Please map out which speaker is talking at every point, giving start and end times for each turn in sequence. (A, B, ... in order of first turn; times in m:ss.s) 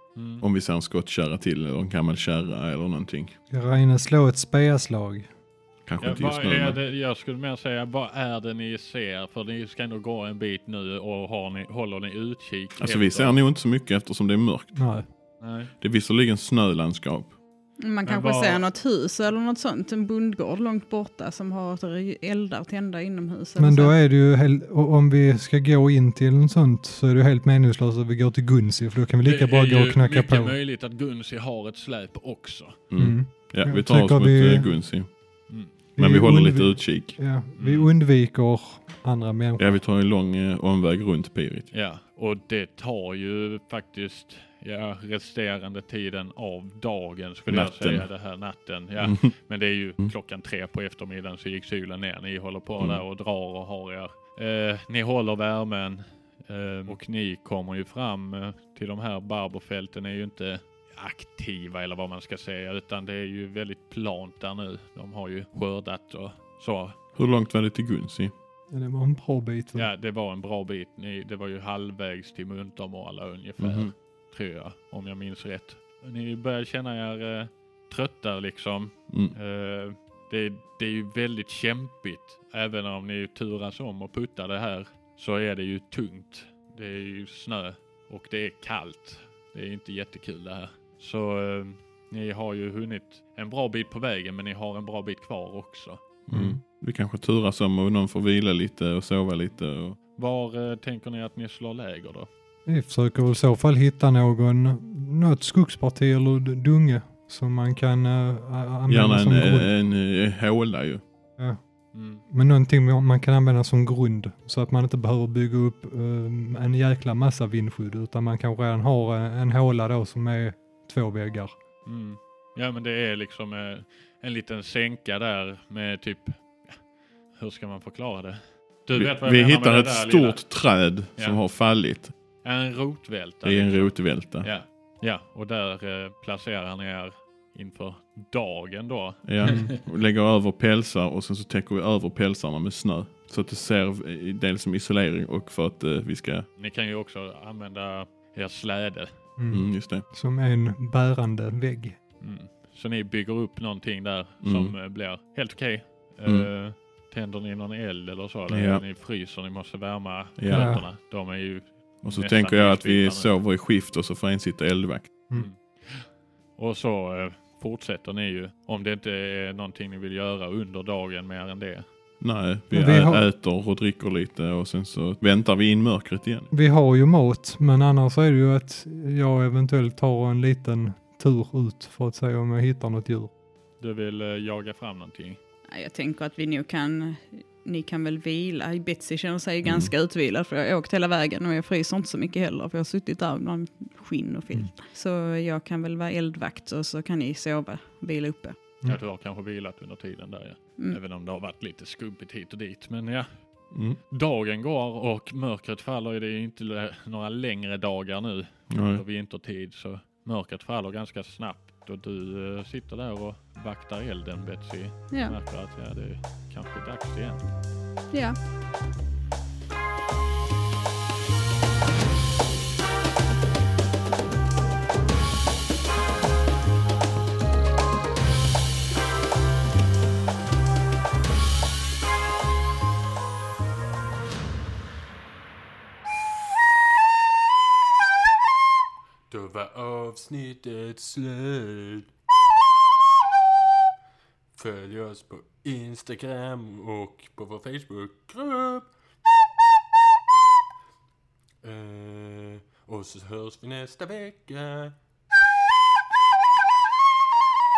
0:00.1-0:00.4 A
0:00.4-0:03.4 B
0:03.5-0:05.3 C
0:05.8-0:06.8 B
0:06.0-0:13.4 A
0:12.8-0:14.7 B
0:14.7-0:15.0 C
0:15.4-0:15.7 A
0:15.8-0:17.4 B
0:17.8-0:23.9 D
0:18.0-0:18.6 A
0:23.6-0:30.6 C
0:29.2-0:32.8 A
0:32.9-0:35.1 B
0:33.0-0:34.8 C
0:35.5-0:35.7 A
0:36.0-0:37.2 B
0:36.0-0:39.8 C
0:37.6-0:37.9 A
0:39.6-0:41.7 B
0:41.7-1:07.0 A
0:47.5-0:48.1 B
0:49.0-0:49.3 B
1:07.1-1:08.3 B
1:08.7-1:09.9 C
1:09.7-1:36.0 A
1:13.6-1:13.9 B
1:19.1-1:19.4 B
1:36.3-1:40.0 B
1:36.3-1:36.6 C
1:40.1-1:42.3 A
1:42.6-1:49.7 C
1:48.9-1:51.0 B
1:51.9-1:52.2 A
1:52.3-2:01.6 C
2:01.8-2:06.8 A
2:07.3-2:10.4 A
2:08.9-2:12.1 B
2:11.2-2:11.4 A
2:12.4-2:19.8 A
2:13.4-2:14.6 B
2:19.2-2:26.5 B
2:19.4-2:19.7 C
2:26.6-2:29.2 A
2:29.4-2:32.0 C
2:29.5-2:30.0 B
2:32.2-2:43.3 A
2:34.4-2:34.7 B
2:36.2-2:36.5 B
2:38.5-2:38.8 B
2:40.4-2:40.9 B
2:40.5-2:40.8 C
2:42.0-2:45.1 B
2:45.3-2:51.8 A
2:52.2-2:56.5 B
2:52.7-2:53.3 C
2:56.5-3:03.3 C
3:03.8-3:05.4 A
3:05.7-3:18.6 D
3:09.6-3:09.9 B
3:18.8-3:23.4 A
3:23.7-3:24.0 B
3:24.0-3:37.5 A
3:28.7-3:29.0 B
3:35.1-3:35.4 D
3:38.1-3:38.4 D
3:59.3-4:02.1 E
4:04.6-4:08.9 E
4:11.6-4:15.0 E